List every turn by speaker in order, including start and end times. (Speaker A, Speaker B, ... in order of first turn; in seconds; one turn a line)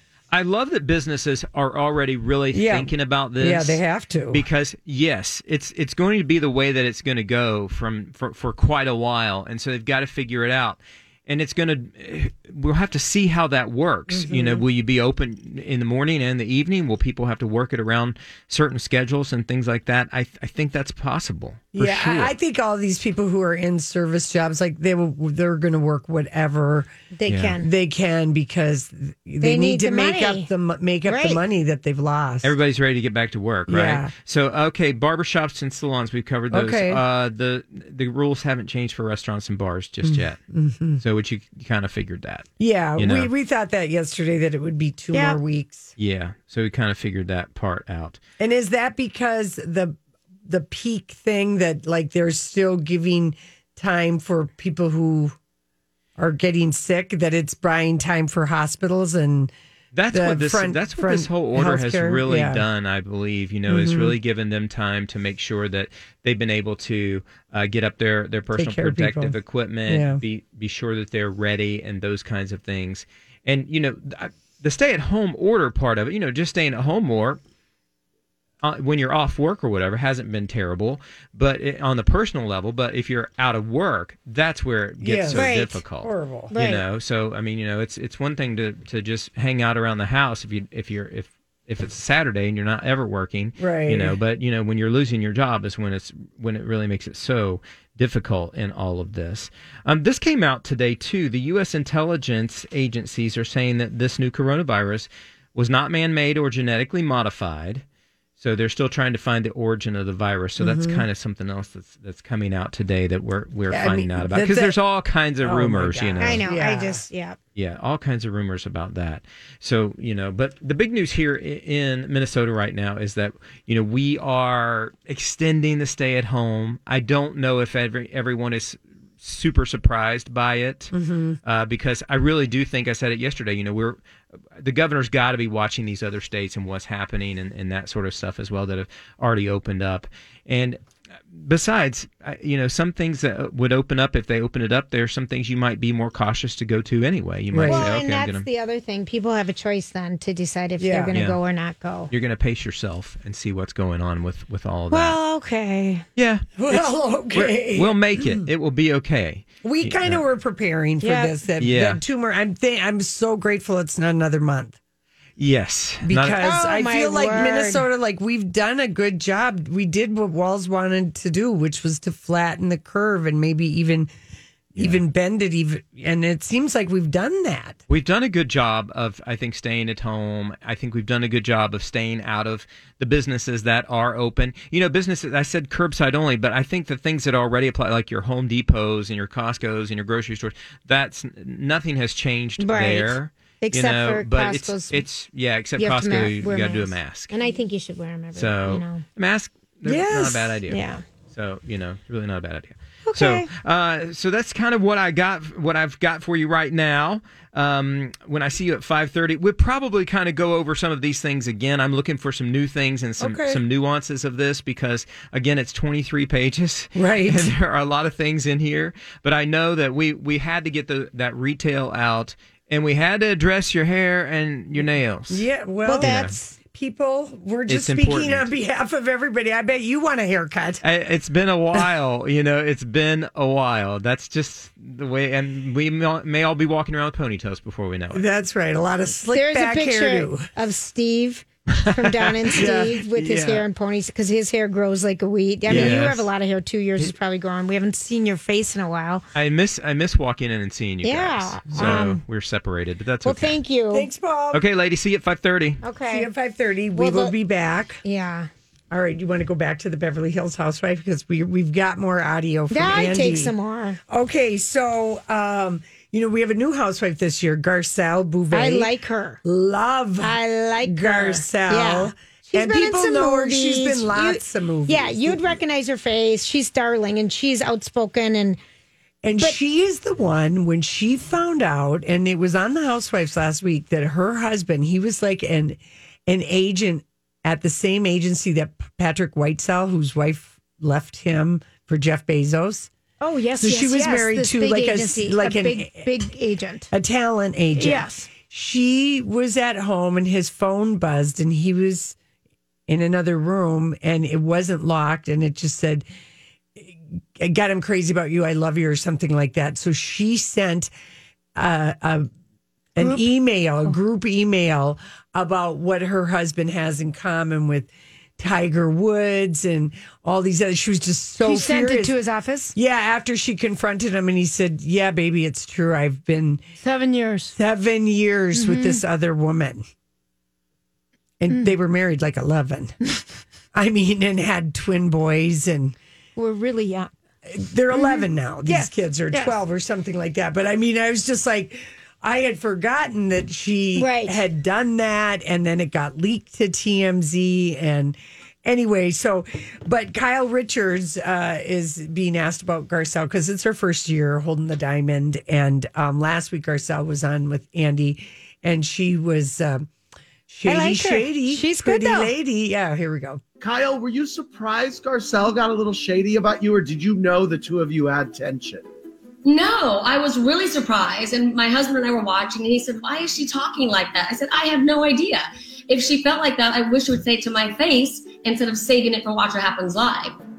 Speaker A: 0.3-3.8
Speaker B: 2.5-4.5
Speaker A: 4.3-22.3
Speaker B: 14.1-14.7
Speaker B: 21.7-26.9
Speaker C: 27.1-27.7
Speaker A: 27.3-27.6
Speaker B: 27.6-32.5
Speaker C: 29.4-30.5
Speaker C: 31.1-31.4
Speaker A: 32.4-40.4
Speaker B: 33.7-34.1
Speaker B: 36.5-37.0
Speaker B: 40.0-41.0
Speaker A: 41.0-43.3
Speaker B: 42.6-45.9
Speaker C: 45.1-45.4
Speaker A: 46.0-48.2
Speaker B: 48.4-55.3
Speaker B: 56.2-59.5
Speaker A: 59.9-77.4
Speaker B: 60.1-62.7
Speaker B: 63.7-64.2
Speaker B: 68.5-70.2
Speaker A: 78.6-107.8
Speaker B: 85.0-86.5
Speaker C: 85.3-85.8
Speaker C: 86.5-86.8
Speaker B: 93.6-94.2
Speaker A: 108.4-116.4
Speaker B: 110.6-111.1
Speaker B: 113.7-114.8
Speaker B: 115.4-117.0
Speaker C: 116.2-117.4
Speaker A: 117.5-130.9
Speaker B: 130.9-131.4
Speaker A: 131.4-134.0
Speaker A: 134.6-140.8
Speaker A: 141.3-148.4
Speaker B: 147.5-147.9
Speaker C: 147.7-152.1
Speaker B: 150.8-151.1
Speaker A: 151.1-151.4
Speaker A: 152.1-155.2
Speaker C: 154.9-156.0
Speaker A: 156.2-160.2
Speaker B: 156.6-158.5
Speaker B: 159.6-164.8
Speaker C: 161.0-161.3
Speaker A: 161.6-162.0
Speaker A: 165.4-166.4
Speaker B: 166.0-174.1
Speaker C: 166.4-167.8
Speaker B: 174.8-177.8
Speaker A: 177.9-197.3
Speaker C: 192.6-195.0
Speaker C: 195.8-199.0
Speaker A: 198.3-226.3
Speaker B: 199.8-200.6
Speaker C: 200.7-201.0
Speaker C: 203.1-203.5
Speaker B: 213.2-213.6
Speaker B: 216.9-217.5
Speaker B: 225.3-230.8
Speaker C: 225.8-226.6
Speaker A: 227.7-228.5
Speaker A: 230.8-238.2
Speaker B: 238.1-240.5
Speaker C: 239.3-249.2
Speaker B: 242.4-243.6
Speaker A: 243.2-243.6
Speaker B: 245.7-246.1
Speaker A: 245.7-246.3
Speaker A: 249.3-253.6
Speaker C: 251.0-252.2
Speaker B: 251.7-252.0
Speaker C: 253.2-254.1
Speaker B: 253.9-254.6
Speaker A: 254.5-255.8
Speaker C: 255.8-256.3
Speaker B: 256.1-258.0
Speaker C: 256.9-257.3
Speaker C: 258.0-258.5
Speaker B: 258.9-263.5
Speaker C: 262.7-264.0
Speaker B: 264.1-268.9
Speaker C: 268.5-269.4
Speaker B: 269.4-275.6
Speaker C: 270.2-278.6
Speaker B: 279.2-292.9
Speaker C: 293.2-296.9
Speaker B: 293.6-296.1
Speaker B: 296.9-302.2
Speaker C: 297.7-298.3
Speaker B: 302.9-306.1
Speaker B: 306.8-310.9
Speaker B: 311.5-312.3
Speaker B: 312.9-322.1
Speaker C: 313.0-313.3
Speaker C: 321.4-322.7
Speaker B: 322.7-326.6
Speaker C: 326.8-327.5
Speaker B: 327.5-329.8
Speaker C: 328.5-329.0
Speaker B: 331.4-332.9
Speaker B: 333.7-335.9
Speaker C: 336.4-337.1
Speaker B: 337.4-359.9
Speaker C: 337.9-339.6
Speaker C: 343.9-344.4
Speaker B: 360.5-363.4
Speaker C: 360.6-362.3
Speaker D: 363.6-368.8
Speaker E: 369.4-380.3